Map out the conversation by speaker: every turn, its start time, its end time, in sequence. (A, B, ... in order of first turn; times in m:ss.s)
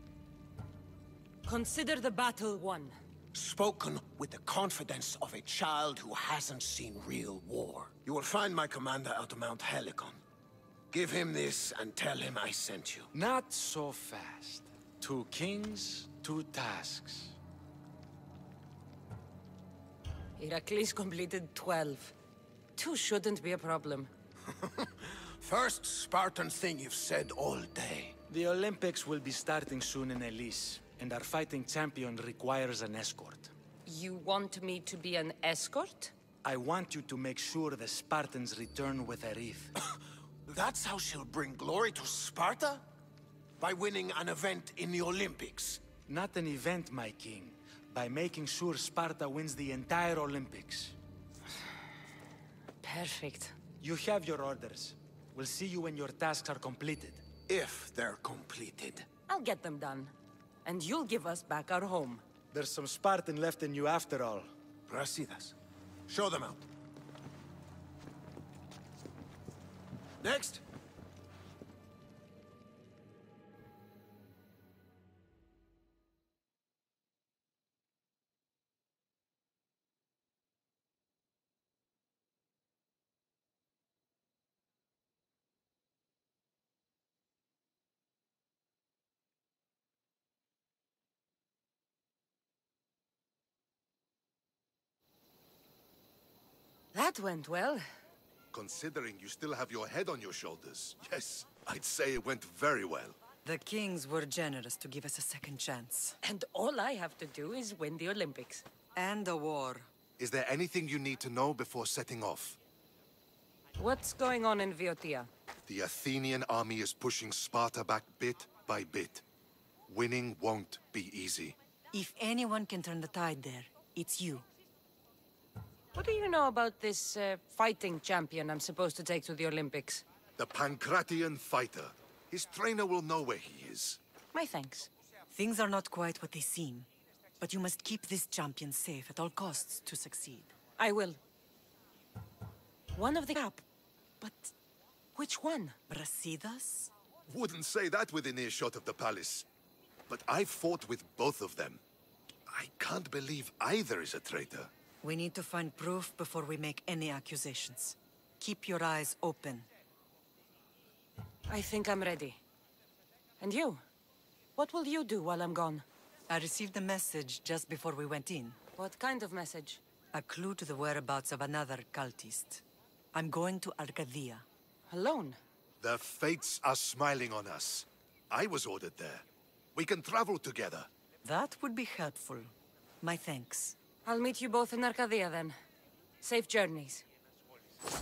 0:01.4-0:02.9 A
0:03.3-0:10.2 B
0:10.9-0:13.1 B
0:13.1-0:17.3 C
0:20.4-0:22.1 A
0:22.8-0:24.1 A
0:24.6-0:28.2 B
0:28.3-0:33.5 C
0:33.8-0:36.1 A
0:36.4-0:39.7 C
0:40.4-0:42.8 B
0:43.6-0:45.8 B
0:46.1-0:50.9 C
0:52.8-0:53.6 A
0:53.8-0:57.2 C
0:57.5-0:59.1 B
0:59.3-1:00.1 A
1:00.6-1:02.2 A
1:02.5-1:04.5 C
1:04.9-1:05.6 B
1:06.1-1:06.6 B
1:10.2-1:10.6 B
1:36.9-1:37.8 A
1:38.5-1:43.2 D
1:43.4-1:46.2 E
1:46.2-1:48.6 A
1:49.0-1:49.9 E
1:50.2-1:52.6 D
1:53.8-1:55.3 A
1:55.7-1:59.2 D
1:59.9-2:01.6 D
2:01.9-2:04.4 E
2:05.9-2:10.0 A
2:10.4-2:14.0 D
2:14.3-2:14.9 A
2:15.3-2:16.9 E
2:17.4-2:20.5 E
2:20.8-2:21.2 A
2:22.9-2:23.6 A
2:24.2-2:24.5 A
2:25.1-2:25.8 A
2:25.9-2:26.9 E
2:27.3-2:29.5 D
2:30.1-2:31.8 D
2:32.5-2:34.7 D
2:35.0-2:39.7 E
2:41.5-2:42.4 A
2:43.4-2:43.8 A
2:44.5-2:45.8 A
2:46.3-2:48.6 E
2:48.8-2:49.8 A
2:50.1-2:52.6 E
2:53.1-2:54.4 E
2:54.9-2:55.4 A
2:55.8-3:00.9 D
3:01.2-3:03.8 E
3:04.0-3:05.6 A
3:06.2-3:07.0 A